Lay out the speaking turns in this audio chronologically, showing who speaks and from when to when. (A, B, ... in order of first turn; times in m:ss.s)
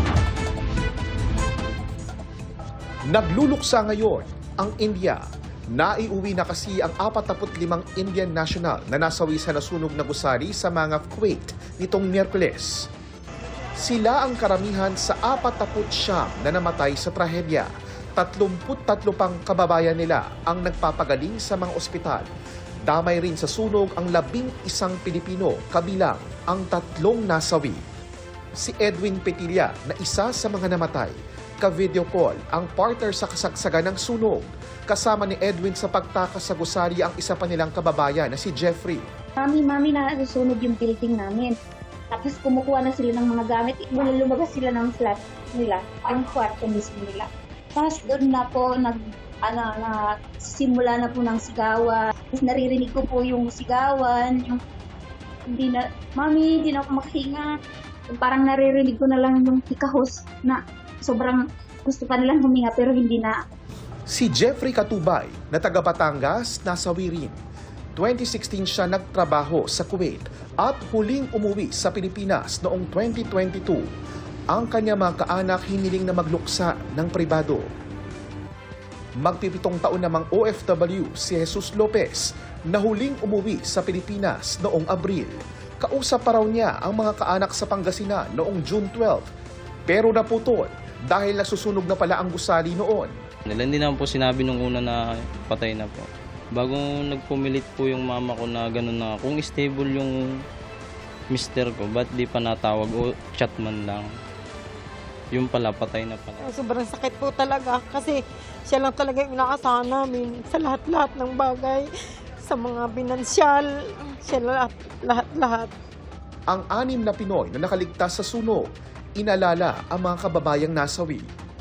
0:03.1-0:05.2 A
0:05.7-0:12.9 A
0:13.8-0:22.3 A
0:22.9-0:27.8 A
0:28.6-0:39.1 A
0:39.4-0:41.5 B
0:42.1-0:54.6 B
0:55.5-0:57.6 B
0:58.1-1:03.4 B
1:04.1-1:07.4 A
1:08.0-1:13.9 A
1:14.5-1:17.7 A
1:19.2-1:29.3 A
1:29.9-1:33.2 A
1:33.4-1:40.2 C
1:41.3-1:44.1 C
1:45.3-1:46.4 C
1:46.4-1:51.9 D
1:52.4-1:55.7 D
1:56.5-1:58.7 A
1:59.2-2:01.3 A